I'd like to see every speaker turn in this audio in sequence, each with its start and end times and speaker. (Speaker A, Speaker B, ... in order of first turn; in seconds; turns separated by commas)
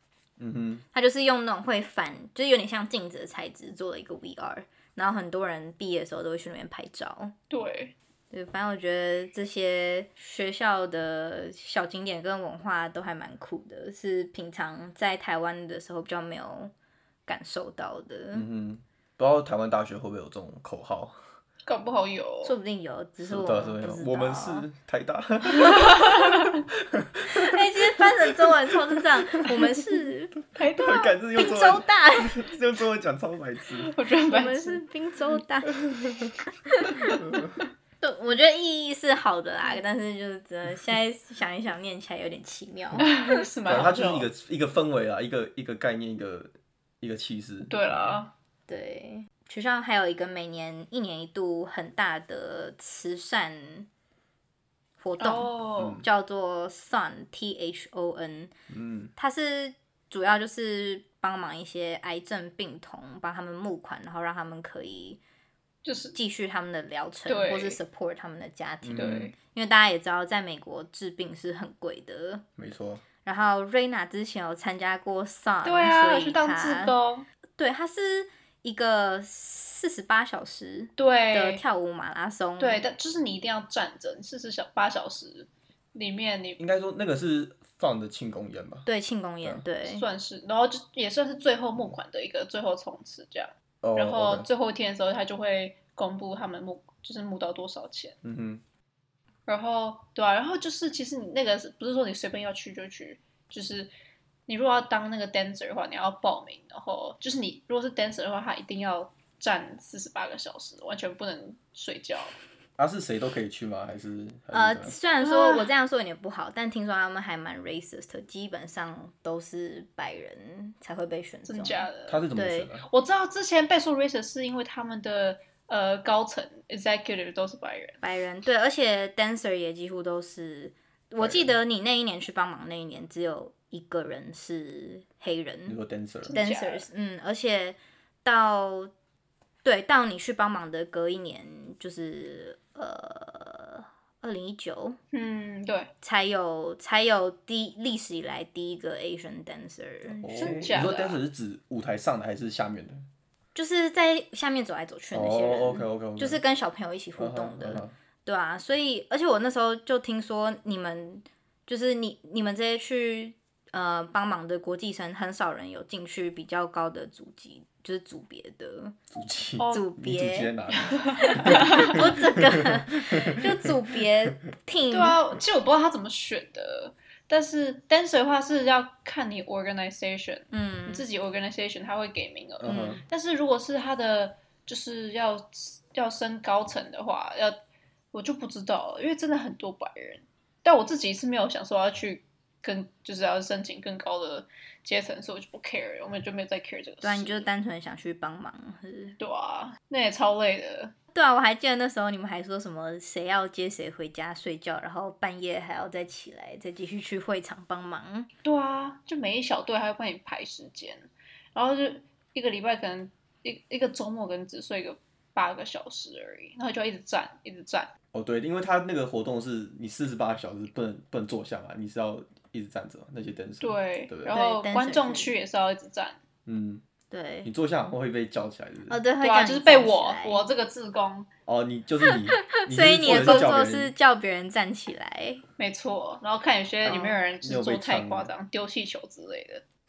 Speaker A: 0.4-0.8, Speaker B: 0.9-7.3, Speaker C: 7.5-7.9, Speaker B: 8.3-16.7, Speaker B: 17.3-18.5, Speaker A: 18.3-21.3, Speaker C: 21.7-22.6, Speaker B: 22.4-24.7, Speaker A: 23.2-29.7, Speaker B: 27.3-30.4, Speaker C: 30.6-31.2, Speaker A: 30.6-33.9, Speaker B: 31.4-32.5, Speaker C: 33.7-34.8, Speaker B: 34.3-35.8, Speaker B: 36.7-37.1, Speaker B: 38.0-43.3, Speaker C: 43.0-44.3, Speaker A: 43.6-48.1, Speaker C: 47.7-48.3, Speaker B: 48.7-53.9, Speaker B: 55.0-58.5, Speaker C: 55.2-56.0, Speaker A: 55.8-56.0, Speaker A: 58.7-59.1, Speaker B: 59.2-65.2, Speaker C: 65.8-66.2, Speaker B: 66.1-72.4, Speaker C: 67.3-67.8, Speaker A: 68.8-69.3, Speaker C: 69.0-69.3, Speaker A: 72.6-73.0, Speaker B: 73.2-76.9, Speaker C: 75.6-77.3, Speaker B: 77.6-82.8, Speaker C: 81.0-81.6, Speaker C: 82.6-86.6, Speaker A: 86.6-88.9, Speaker B: 88.9-90.0, Speaker C: 89.9-98.2, Speaker A: 93.8-94.5, Speaker A: 98.2-98.6, Speaker C: 99.5-103.9, Speaker C: 104.5-112.4, Speaker A: 112.8-115.0, Speaker B: 114.5-122.7, Speaker C: 115.2-115.7, Speaker C: 121.5-122.2, Speaker A: 122.1-122.8, Speaker C: 122.8-128.0, Speaker B: 128.0-135.8, Speaker A: 131.2-131.5, Speaker A: 135.7-136.4, Speaker C: 136.2-136.9, Speaker B: 136.3-138.9, Speaker B: 139.6-145.0, Speaker C: 145.1-145.9, Speaker B: 146.0-150.7, Speaker A: 150.2-153.1, Speaker C: 150.3-151.2, Speaker B: 153.6-169.0, Speaker A: 155.1-156.4, Speaker A: 157.2-157.9, Speaker A: 169.1-173.7, Speaker C: 169.6-169.9, Speaker B: 169.7-170.5, Speaker C: 170.7-172.0, Speaker B: 171.2-175.2, Speaker C: 174.9-187.6, Speaker B: 180.5-181.0, Speaker A: 182.6-183.0, Speaker B: 182.7-183.0, Speaker C: 188.1-197.5, Speaker B: 197.0-199.2, Speaker C: 199.2-200.9, Speaker B: 201.1-208.3, Speaker C: 208.4-217.9, Speaker A: 218.1-224.3, Speaker C: 223.6-226.2, Speaker B: 224.3-225.3, Speaker A: 226.5-226.8, Speaker B: 227.1-227.5, Speaker A: 227.4-229.0, Speaker B: 228.9-230.4, Speaker C: 229.2-231.3, Speaker A: 231.5-233.9, Speaker B: 232.5-235.4, Speaker C: 235.6-239.6, Speaker A: 236.9-238.3, Speaker B: 236.9-237.1